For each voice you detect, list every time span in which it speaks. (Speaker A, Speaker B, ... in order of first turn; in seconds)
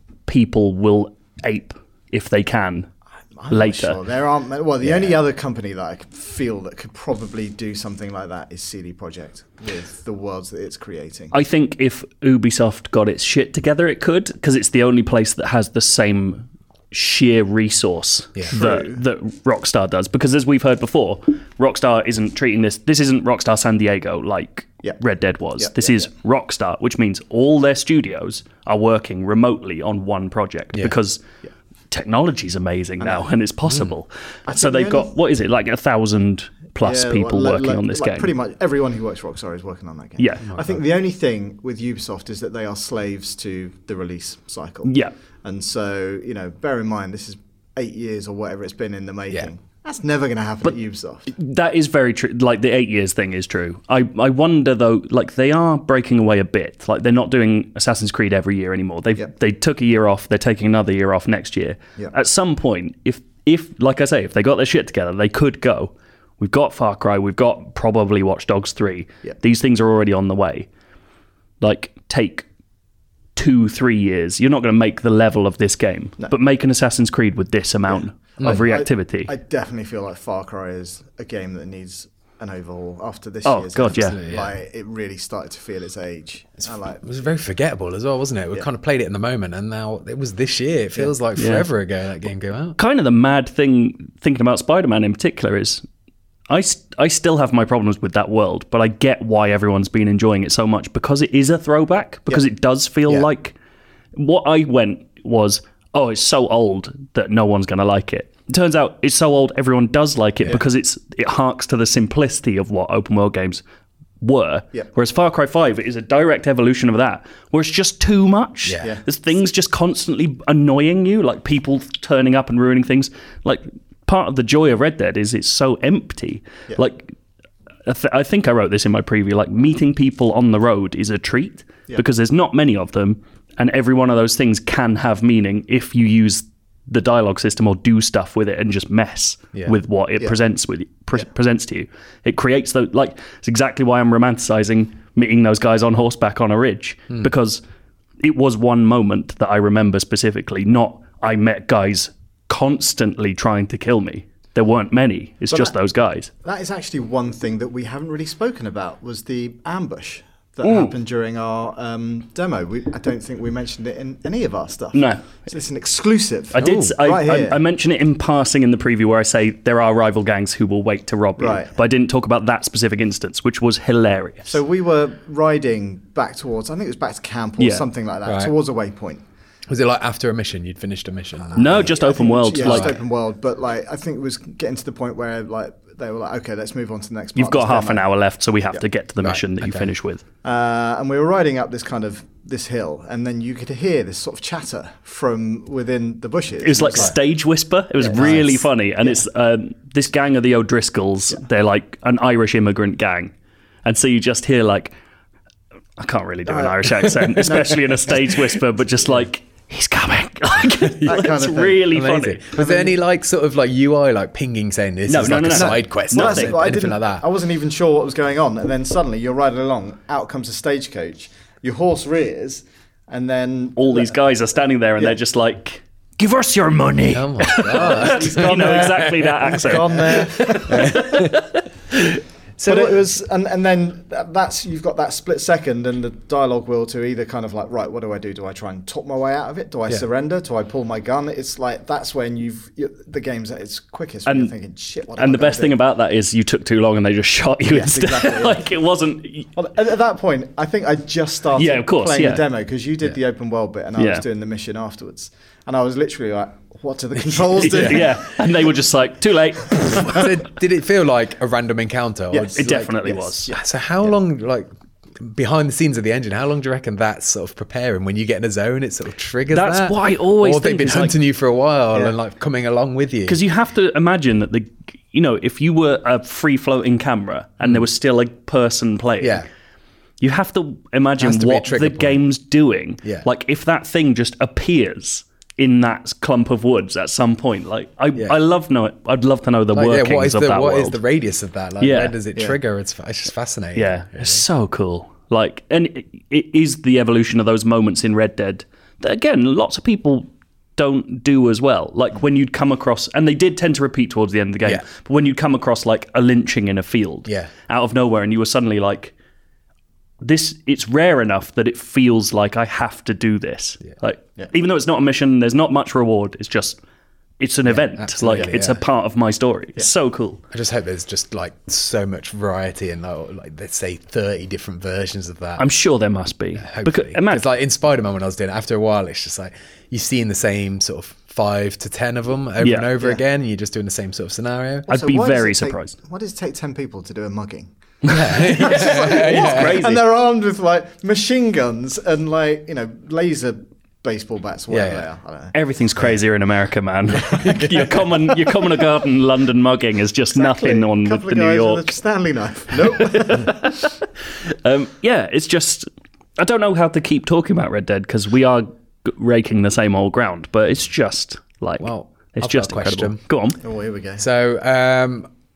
Speaker A: 0.3-2.9, 3.5-4.0, 11.3-31.2, 31.9-38.3, 40.2-40.5, 44.8-45.1, 51.3-70.7, 71.6-72.5, 73.3-79.3, 83.4-84.2, 91.3-91.7, 92.8-95.8, 96.5-103.5, 104.2-113.6, 114.2-127.1, 127.8-147.6, 148.2-156.3, 160.6-160.9, 164.9-165.3, 166.5-174.5, 177.6-177.8, 181.6-182.9, 187.3-190.2, 196.6-203.3, 203.8-204.9, 206.0-212.5, 215.1-216.6, 223.8-232.2, 244.2-244.5, 245.2-249.5, 251.5-252.4, 254.0-254.2, 257.6-260.3, 262.5-263.5, 269.5-271.2, 273.2-279.4, 280.2-291.0, 291.8-292.1, 293.7-309.1, 310.2-316.8, 317.4-320.4, 325.6-327.4, 332.6-332.9, 334.9-335.9, 338.0-340.0, 345.5-351.9, 352.9-355.9, 356.4-363.6
Speaker B: 3.3-11.3, 18.5-19.0, 25.6-26.1, 33.0-33.3, 34.5-35.1, 36.8-51.3, 77.9-87.0, 155.5-155.7, 156.4-167.6, 171.4-171.7, 174.5-179.2, 181.5-188.1, 190.4-197.2, 206.5-208.3, 211.0-211.9, 212.5-213.0, 215.5-224.2, 227.7-231.2, 232.6-245.8, 247.7-248.7, 249.6-258.3, 262.3-264.1, 334.9-337.7, 338.3-345.5, 350.3-353.7, 363.6-364.2
Speaker C: 40.4-40.8, 78.4-78.7, 83.9-84.5, 87.0-92.8, 166.6-167.0, 178.2-178.5, 179.7-181.9, 182.6-182.9, 189.2-189.9, 198.1-198.6, 210.9-211.2, 211.9-217.2, 227.1-231.4, 232.6-232.9, 257.8-258.0, 259.9-262.9, 263.5-264.7, 265.2-273.4, 279.2-279.4, 281.2-282.2, 289.7-294.4, 317.7-318.8, 320.5-325.6, 326.6-334.9, 338.0-339.8, 344.7-345.0, 347.3-347.9, 361.8-363.2, 364.2-365.3